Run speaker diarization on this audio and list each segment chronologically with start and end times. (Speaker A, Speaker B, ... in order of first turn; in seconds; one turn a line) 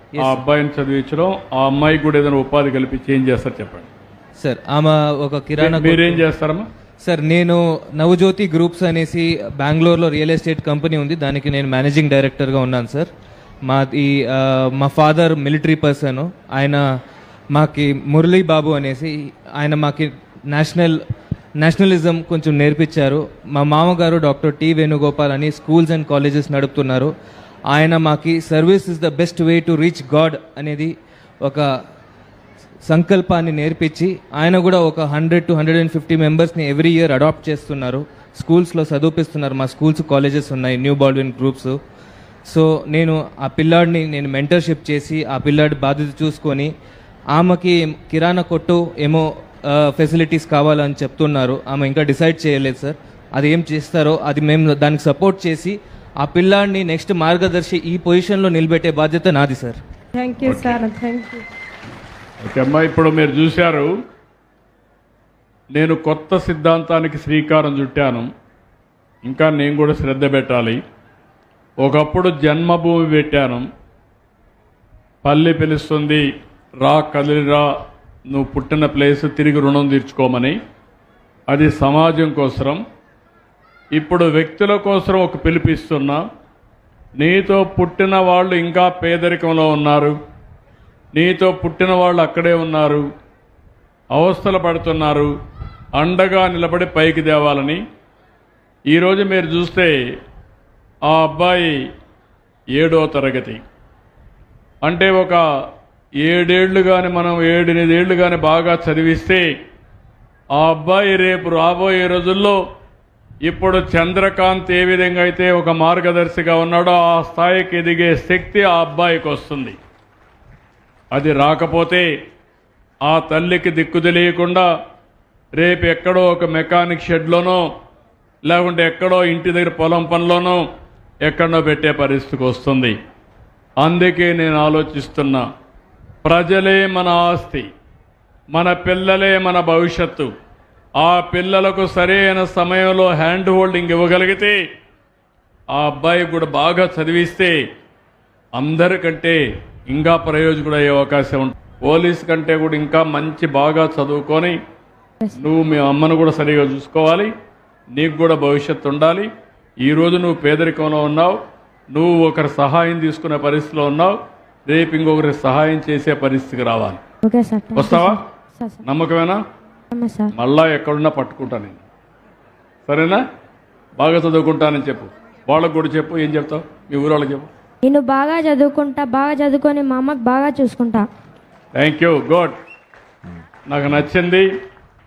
Speaker A: 0.1-0.4
Speaker B: 0.2-3.9
Speaker A: 4.4-6.2
Speaker B: 5.6-6.7
Speaker A: 7.0-13.1
Speaker A: 13.6-16.8
Speaker A: 17.5-21.0
Speaker A: 21.6-27.1
Speaker A: 27.7-31.7
Speaker A: 32.9-41.8
Speaker A: 42.5-46.7
Speaker A: 47.3-59.8
Speaker C: 60.1-61.4
Speaker B: 60.4-60.8
Speaker B: 62.4-63.9
Speaker B: 65.7-68.3
Speaker B: 69.2-70.8
Speaker B: 71.8-73.7
Speaker B: 75.2-76.2
Speaker B: 76.8-77.7
Speaker B: 78.3-80.6
Speaker B: 81.5-82.8
Speaker B: 83.9-86.2
Speaker B: 87.2-90.2
Speaker B: 91.1-93.0
Speaker B: 94.1-95.3
Speaker B: 96.0-97.8
Speaker B: 98.9-100.0
Speaker B: 101.0-101.8
Speaker B: 102.8-103.6
Speaker B: 104.8-105.4
Speaker B: 106.2-109.5
Speaker B: 110.5-112.6
Speaker B: 113.4-119.8
Speaker B: 121.1-122.1
Speaker B: 123.0-124.7
Speaker B: 125.5-127.6
Speaker B: 128.4-130.6
Speaker B: 131.2-132.9
Speaker B: 133.8-135.4
Speaker B: 136.2-137.7
Speaker B: 138.5-140.3
Speaker B: 141.0-144.6
Speaker B: 145.7-147.6
Speaker B: 148.6-154.6
Speaker B: 155.3-157.3
Speaker B: 157.9-159.3
Speaker B: 159.8-161.4
Speaker B: 161.9-167.0
Speaker C: 167.2-168.8
Speaker B: 167.7-168.2
Speaker B: 168.8-169.4
Speaker C: 169.9-170.3
Speaker B: 170.3-171.8
Speaker B: 172.9-173.2
Speaker B: 174.0-177.5
Speaker C: 177.8-181.1
Speaker B: 181.7-182.5
Speaker B: 183.7-184.5